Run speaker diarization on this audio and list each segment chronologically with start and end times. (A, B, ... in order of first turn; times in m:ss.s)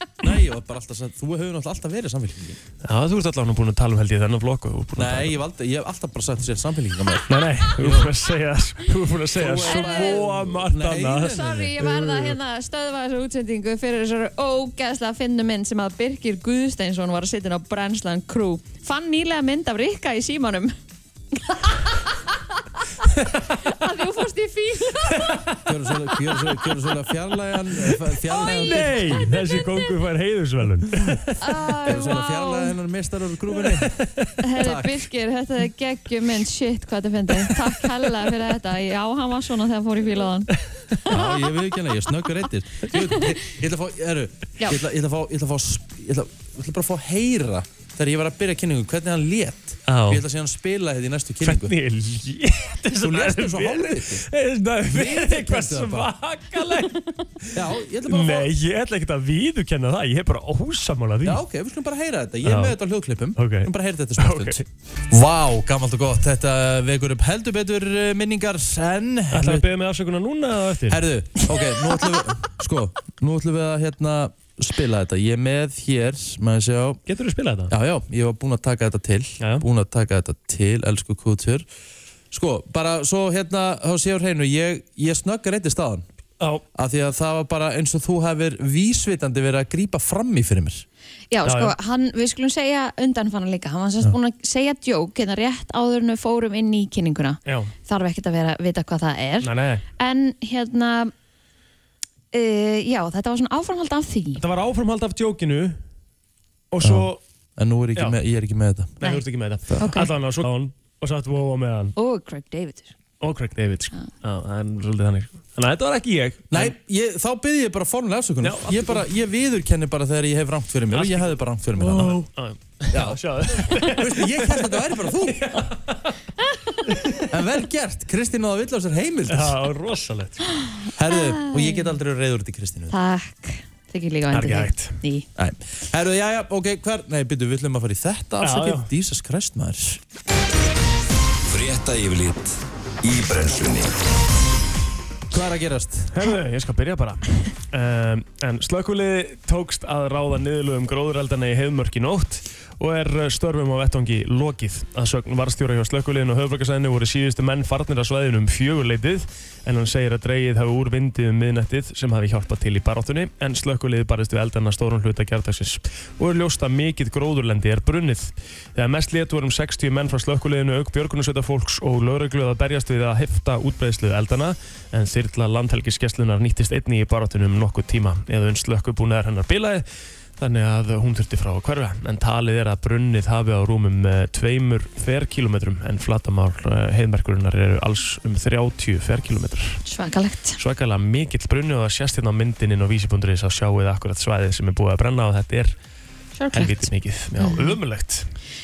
0:00.2-0:02.6 A
0:02.8-0:05.4 B
0:05.0-0:08.1 A
0:07.3-0:12.3 B
0:09.3-0:11.6 A
0:09.6-0:10.2 C
0:11.2-0:20.7 C
0:21.4-0:23.0 C
0:23.6-0:25.4 C
0:25.2-0:25.5 B
0:25.6-0:29.2 A
0:28.3-0:29.8 C
0:28.4-0:31.4 B
0:31.4-0:32.7 C
0:31.8-0:35.0 A
0:33.8-0:34.3 B
0:34.4-0:40.5 C
0:41.1-0:51.7 A
0:49.9-0:50.2 B
0:51.4-0:57.6 B
0:53.0-0:54.2 A
0:54.9-0:56.1 A
0:57.5-0:58.5 A
0:58.1-1:01.4 B
1:01.2-1:09.7 A
1:02.4-1:02.8 B
1:03.4-1:04.6 B
1:09.3-1:11.0 B
1:10.9-1:17.0 A
1:17.1-1:17.7 B
1:17.7-1:21.6 A
1:22.3-1:26.0 A
1:26.7-1:30.8 A
1:31.3-1:41.1 C
1:31.4-1:31.7 B
1:37.4-1:37.7 B
1:39.4-1:39.8 B
1:42.3-1:44.4 C
1:44.4-1:45.8 B
1:46.7-1:47.2 B
1:46.8-1:48.9 A
1:49.0-1:51.9 B
1:49.8-1:50.1 C
1:52.0-1:52.9 C
1:53.2-1:56.7 B
1:56.5-2:02.3 A
1:58.4-1:59.0 B
2:00.9-2:06.2 B
2:02.9-2:05.7 A
2:06.5-2:06.8 C
2:06.9-2:07.3 B
2:07.2-2:09.6 A
2:09.3-2:10.4 B
2:10.6-2:11.9 C
2:10.9-2:12.9 A
2:12.9-2:15.3 C
2:14.3-2:15.0 B
2:15.4-2:20.0 A
2:18.4-2:18.9 B
2:21.5-2:23.9 D
2:25.3-2:26.2 A
2:26.1-2:59.8 B
3:00.4-3:09.8 B
3:09.8-3:10.6 C
3:10.6-3:15.8 B
3:16.4-3:16.7 C
3:16.5-3:18.3 B
3:17.4-3:17.8 C